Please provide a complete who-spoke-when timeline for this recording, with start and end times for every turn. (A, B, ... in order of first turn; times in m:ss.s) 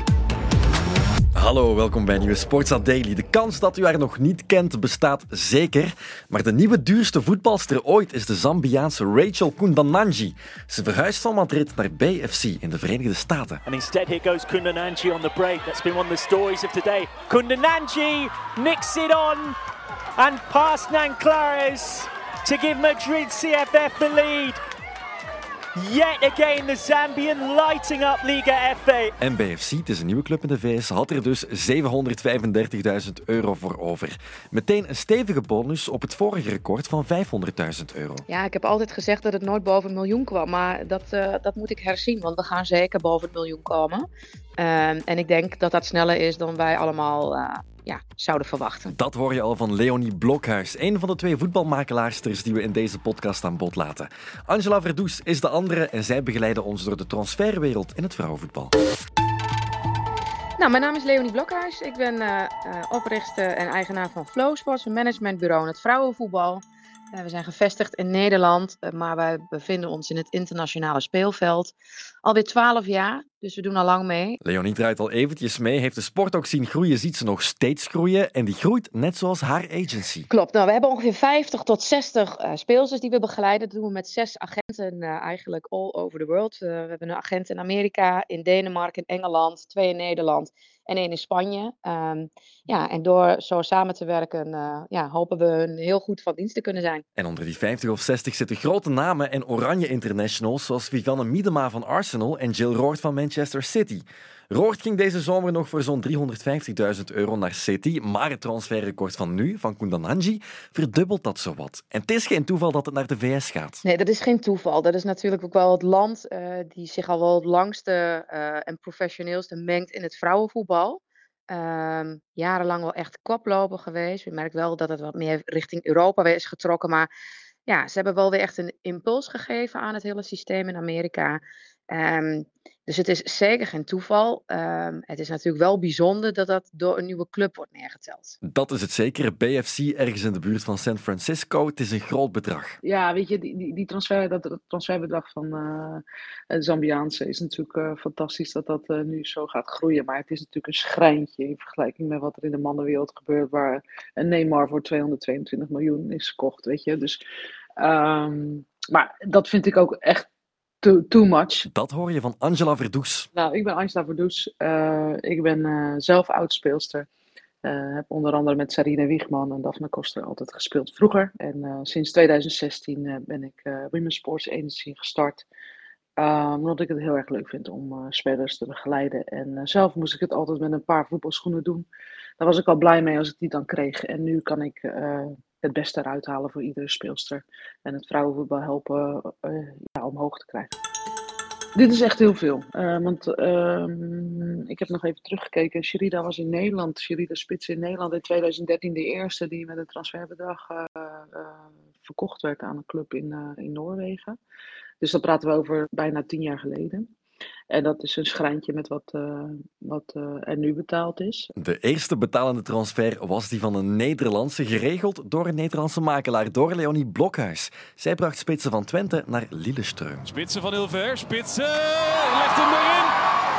0:01.3-0:13.6 A
0:13.7-0:19.4 B
0:20.2-0:24.6 B
0:25.8-0:29.1 B
0:29.2-0:38.2 A
0:38.3-0:44.0 C
0:44.6-0:48.9 C
0:48.9-0:58.7 A
1:00.6-1:14.4 C
1:14.4-1:20.3 A
1:20.3-1:37.0 C
1:37.2-1:53.8 A
1:53.8-2:07.1 C
2:07.7-2:18.4 C
2:18.4-2:22.8 A
2:22.8-2:37.2 D
2:37.8-2:40.3 D
2:40.8-2:41.7 D
2:41.7-2:43.3 A
2:43.3-2:47.1 D
2:47.6-2:55.4 D
2:56.2-3:01.9 D
3:02.4-3:10.7 D
3:11.7-3:24.4 D
3:25.0-3:27.1 D
3:27.7-3:31.5 D
3:31.6-3:40.2 A
3:40.2-3:43.1 E